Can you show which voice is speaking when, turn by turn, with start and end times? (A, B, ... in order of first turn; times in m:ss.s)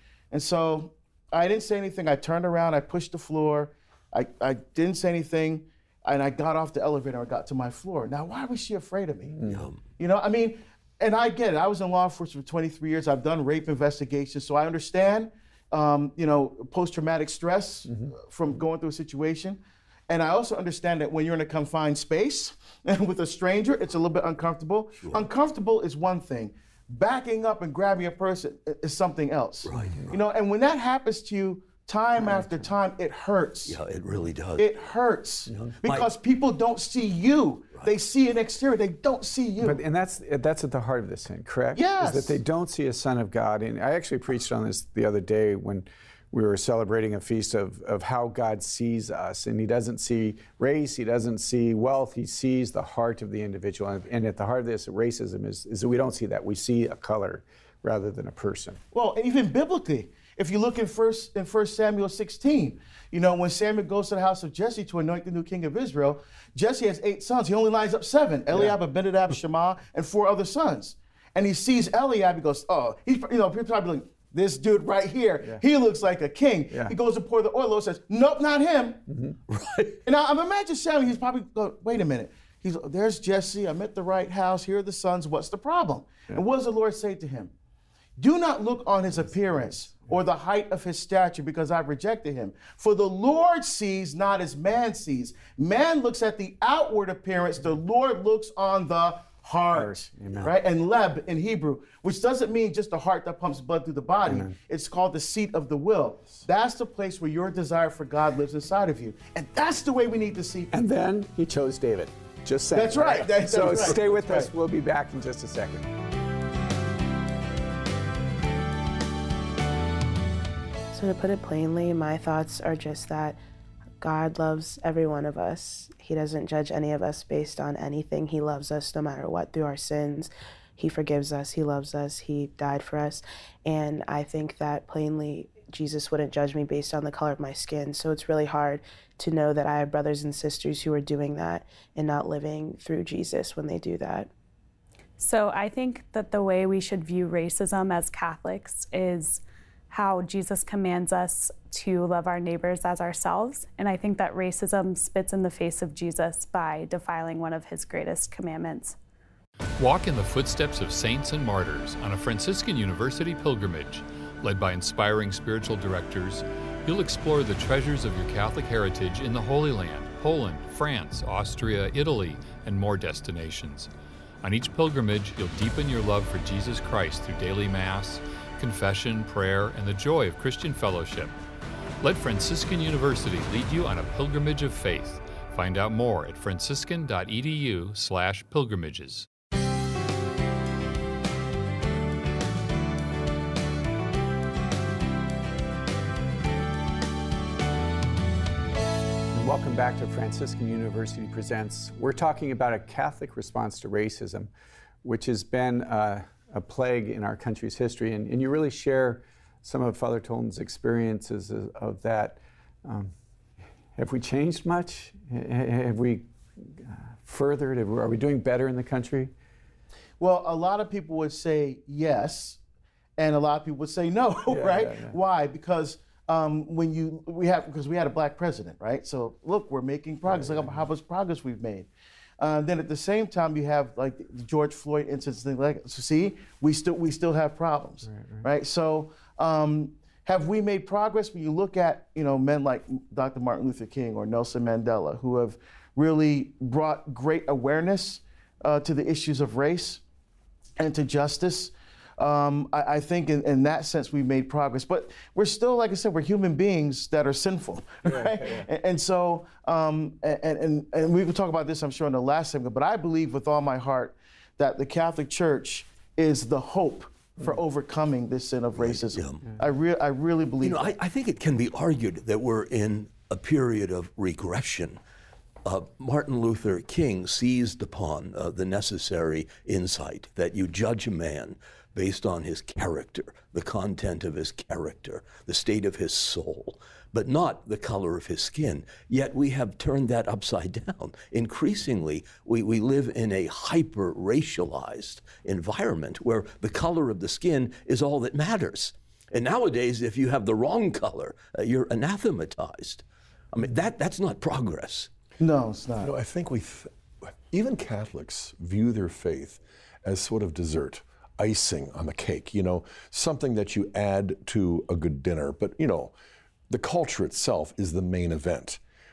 0:00.3-0:09.4 A
0:09.4-0:09.6 B
0:09.4-0:09.8 C
0:10.0-0:33.8 A
0:25.0-0:25.2 C
0:29.6-0:30.2 C
0:32.2-0:32.6 B
0:33.7-0:34.6 C
0:34.6-0:39.8 A
0:35.5-0:36.1 C
0:39.6-0:58.8 B
0:41.7-0:42.4 A
0:58.9-1:19.0 A
1:08.5-1:08.8 B
1:16.7-1:17.0 B
1:19.1-1:19.4 B
1:19.5-1:20.0 C
1:20.0-1:27.5 A
1:28.2-1:50.7 A
1:39.7-1:40.5 B
1:44.3-1:44.5 B
1:50.7-1:55.9 B
1:52.7-1:54.5 A
2:00.9-2:03.4 D
2:04.0-2:24.3 D
2:25.2-2:39.0 E
2:39.8-2:53.9 F
2:54.4-3:01.3 F
3:02.0-3:09.3 F
3:19.3-3:24.5 B
3:25.0-3:33.1 B
3:34.0-3:39.3 B
3:40.2-3:42.6 A
3:43.2-3:51.9 A
3:44.5-3:45.2 B
3:50.3-3:50.8 B
3:52.4-4:10.0 A
3:58.1-3:58.4 B
4:10.8-4:30.9 A
4:18.0-4:18.7 B
4:28.8-4:29.5 C
4:30.6-4:35.0 C
4:35.6-5:05.1 C
5:05.4-5:06.1 A
5:06.0-5:06.9 G
5:07.5-5:16.1 G
5:16.7-5:18.8 G